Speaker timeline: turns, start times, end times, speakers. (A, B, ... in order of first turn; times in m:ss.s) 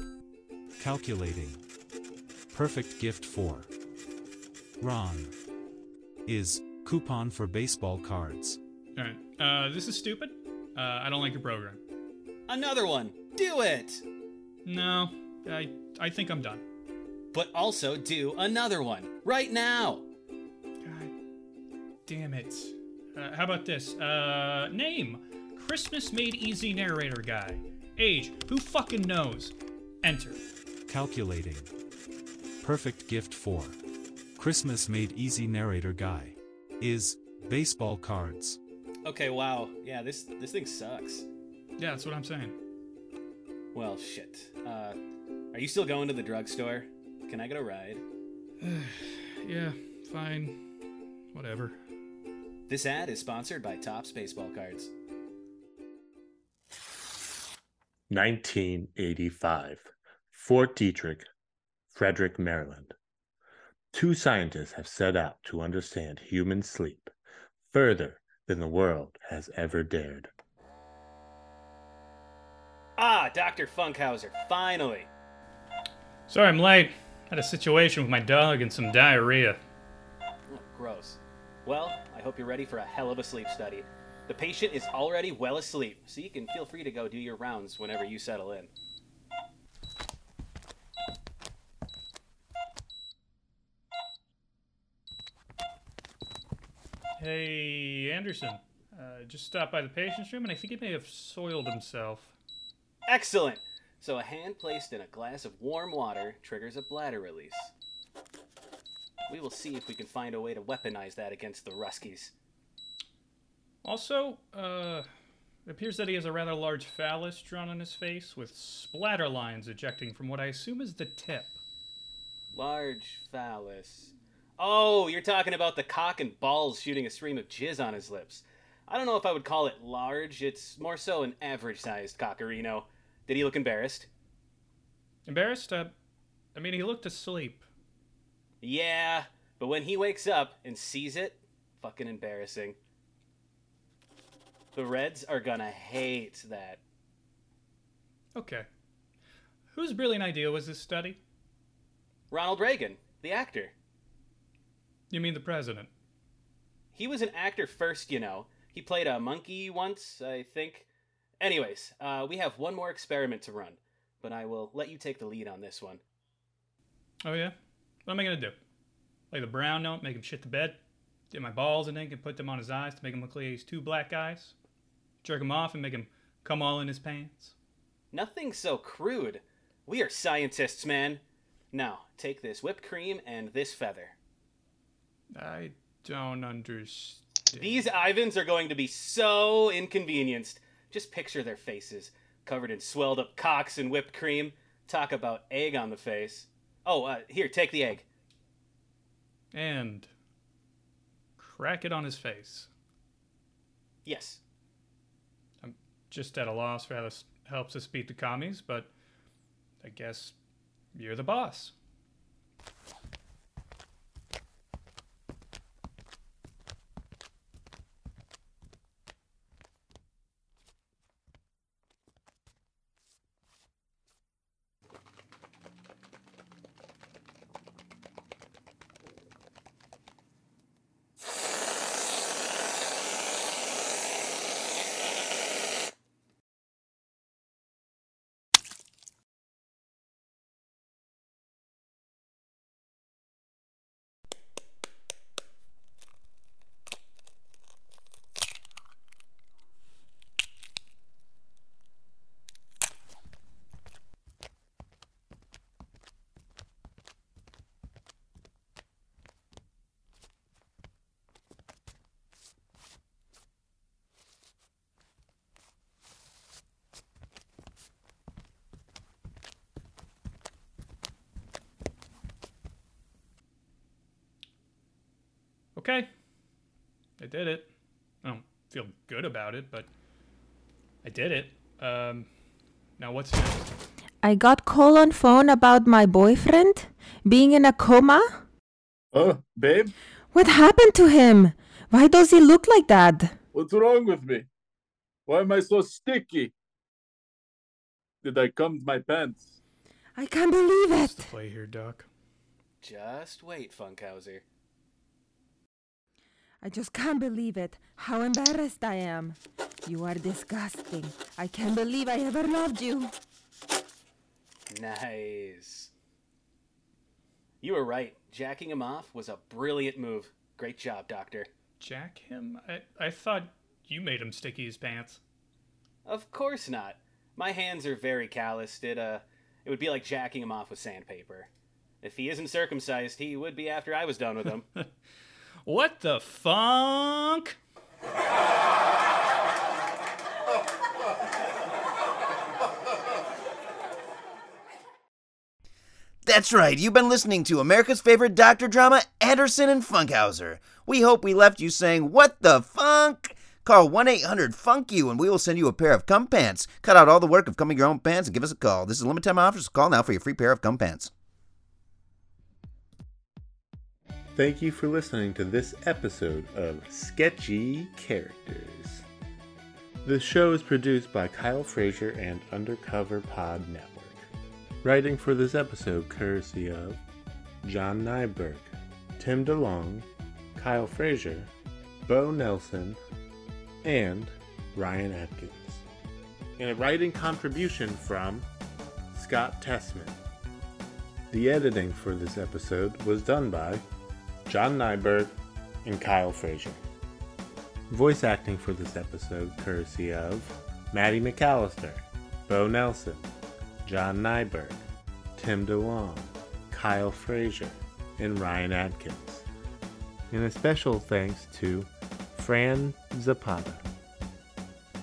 0:00.8-0:01.6 A
0:02.5-0:03.7 A
0:04.8-0:05.3 A
0:06.2-0:08.6 A
0:09.0-0:11.8 B
0:12.5-0:14.0 C
0:14.6-0:16.6 B
0:17.3-0:20.0 C
0:20.8-0:21.1 B
0:22.0-0:30.4 B
0:30.9-0:31.7 A
0:32.6-0:33.8 A
0:34.4-0:38.6 A
0:39.0-0:41.2 C
0:41.8-0:42.6 B
0:43.7-0:45.0 C
0:45.5-0:48.0 C
0:48.6-0:50.7 B
0:51.3-0:51.8 B
0:52.7-0:54.9 C
0:58.1-1:01.3 D
1:01.9-1:02.9 D
1:03.9-1:07.1 D
1:07.6-1:10.3 D
1:13.0-1:15.1 C
1:16.3-1:19.6 B
1:20.5-1:28.7 C
1:37.2-1:42.3 B
1:43.1-1:47.7 C
1:49.3-1:52.3 C
1:53.8-1:55.1 B
1:55.6-2:01.6 B
2:02.5-2:14.1 C
2:15.2-2:15.9 B
2:16.5-2:17.6 B
2:18.6-2:22.8 C
2:24.7-2:26.8 C
2:28.3-2:28.7 B
2:29.7-2:31.2 B
2:32.3-2:33.7 C
2:35.1-2:35.9 B
2:36.9-2:40.9 C
2:41.4-2:46.0 C
2:47.2-2:48.6 B
2:49.3-2:50.8 B
2:51.3-2:54.5 B
2:55.2-2:57.5 B
2:58.1-3:04.2 C
3:05.3-3:07.9 B
3:07.5-3:18.0 C
3:19.5-3:20.1 B
3:21.4-3:22.7 B
3:24.0-3:24.4 C
3:25.6-3:28.9 B
3:29.8-3:30.4 B
3:30.9-3:31.7 B
4:35.8-4:36.1 B
4:37.2-4:37.7 B
4:38.2-4:39.9 B
4:41.0-4:42.3 B
4:43.0-4:43.7 B
4:44.2-4:48.4 E
4:49.1-4:49.9 F
4:50.3-4:53.3 E
4:53.5-4:54.5 F
4:55.3-4:56.5 F
4:58.2-4:59.6 F
5:00.1-5:01.3 E
5:01.0-5:02.1 B
5:02.8-5:04.4 C
5:06.6-5:13.1 E
5:14.7-5:15.9 C
5:17.6-5:21.5 C
5:21.8-5:25.2 B
5:26.0-5:31.5 C
5:32.0-5:34.6 C
5:34.4-5:34.9 B
5:35.6-5:37.6 B
5:46.2-6:01.1 G
6:04.4-6:09.0 D
6:10.0-6:14.2 D
6:14.8-6:17.0 D
6:17.6-6:21.5 D
6:22.0-6:23.0 D
6:23.8-6:25.8 D
6:26.6-6:28.5 D
6:29.1-6:30.2 D
6:31.3-6:33.8 D
6:34.4-6:36.8 D
6:37.9-6:43.3 D
6:43.8-6:44.8 D
6:45.4-6:49.5 D
6:50.3-6:53.8 D